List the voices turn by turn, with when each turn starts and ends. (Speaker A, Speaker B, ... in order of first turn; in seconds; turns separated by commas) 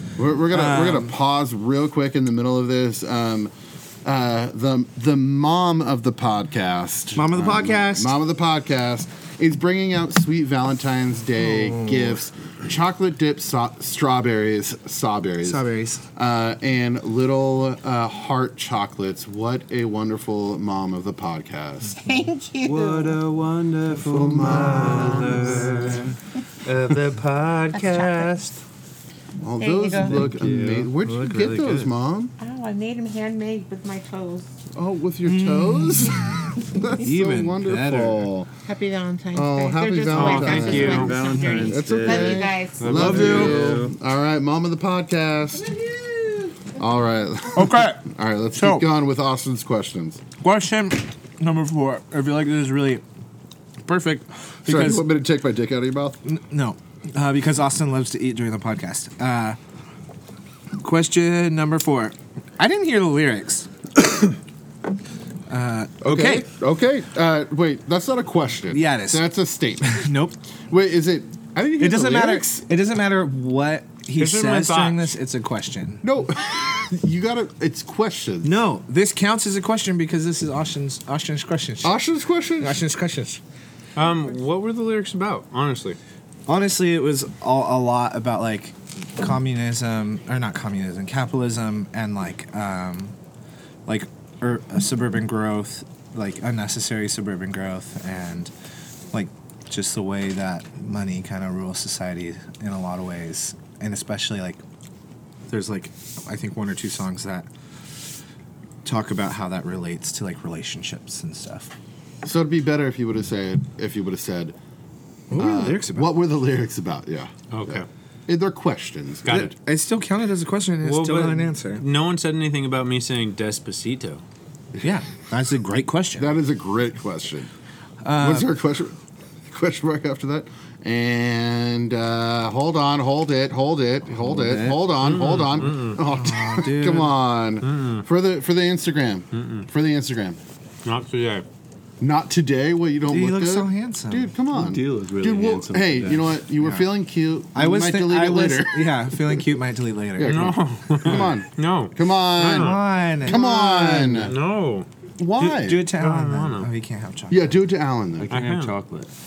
Speaker A: 0.2-3.5, Speaker B: 0.5-1.1, Speaker A: 4.0-22.0, Speaker B: 7.2-8.1, Speaker B: 11.5-12.2, Speaker B: 15.4-16.0, Speaker C: 22.0-23.2, Speaker D: 22.6-26.2, Speaker A: 24.0-26.1, Speaker E: 26.6-28.6, Speaker C: 27.7-28.3, Speaker A: 29.4-32.4, Speaker C: 29.6-30.2, Speaker D: 30.0-31.5, Speaker B: 31.1-31.6, Speaker C: 32.4-34.5, Speaker A: 34.7-38.5, Speaker B: 35.3-38.3, Speaker C: 38.7-43.2, Speaker A: 39.3-45.7, Speaker E: 40.1-41.1, Speaker D: 40.1-44.0, Speaker B: 41.3-41.7, Speaker B: 43.2-43.5, Speaker E: 43.2-43.5, Speaker A: 46.8-50.2, Speaker B: 47.5-48.9, Speaker B: 50.4-53.0, Speaker B: 53.9-55.1, Speaker A: 54.6-56.2, Speaker B: 56.2-59.6, Speaker B: 60.8-63.7, Speaker B: 65.5-66.5, Speaker A: 66.0-70.1, Speaker B: 68.7-69.2, Speaker B: 69.8-70.4, Speaker A: 70.7-72.7, Speaker B: 71.8-76.0, Speaker E: 74.2-75.1, Speaker A: 76.0-78.5, Speaker B: 78.4-82.0, Speaker A: 81.8-82.8, Speaker B: 82.6-83.4, Speaker E: 84.0-86.0, Speaker B: 86.5-93.2, Speaker B: 93.9-98.5, Speaker B: 99.1-104.6, Speaker B: 105.5-107.5, Speaker B: 108.8-111.8, Speaker A: 112.2-114.5, Speaker B: 115.3-116.1, Speaker A: 115.3-119.4, Speaker E: 117.5-117.9, Speaker E: 119.2-119.5, Speaker B: 119.3-121.8, Speaker E: 120.8-124.2, Speaker B: 124.8-126.3, Speaker A: 126.2-127.5, Speaker B: 128.0-128.5, Speaker A: 128.2-140.4, Speaker B: 134.2-134.9, Speaker E: 135.0-136.0, Speaker B: 136.0-137.2, Speaker E: 137.6-138.1, Speaker E: 139.3-139.7, Speaker E: 140.8-141.5, Speaker A: 142.0-149.4, Speaker B: 143.1-144.3, Speaker D: 144.5-146.4, Speaker B: 147.5-150.6, Speaker A: 150.2-154.4, Speaker E: 150.2-154.9, Speaker B: 152.4-154.3, Speaker A: 155.2-155.9, Speaker B: 155.4-157.6, Speaker E: 155.9-156.7, Speaker A: 157.3-158.3, Speaker D: 158.2-159.1, Speaker E: 158.3-158.9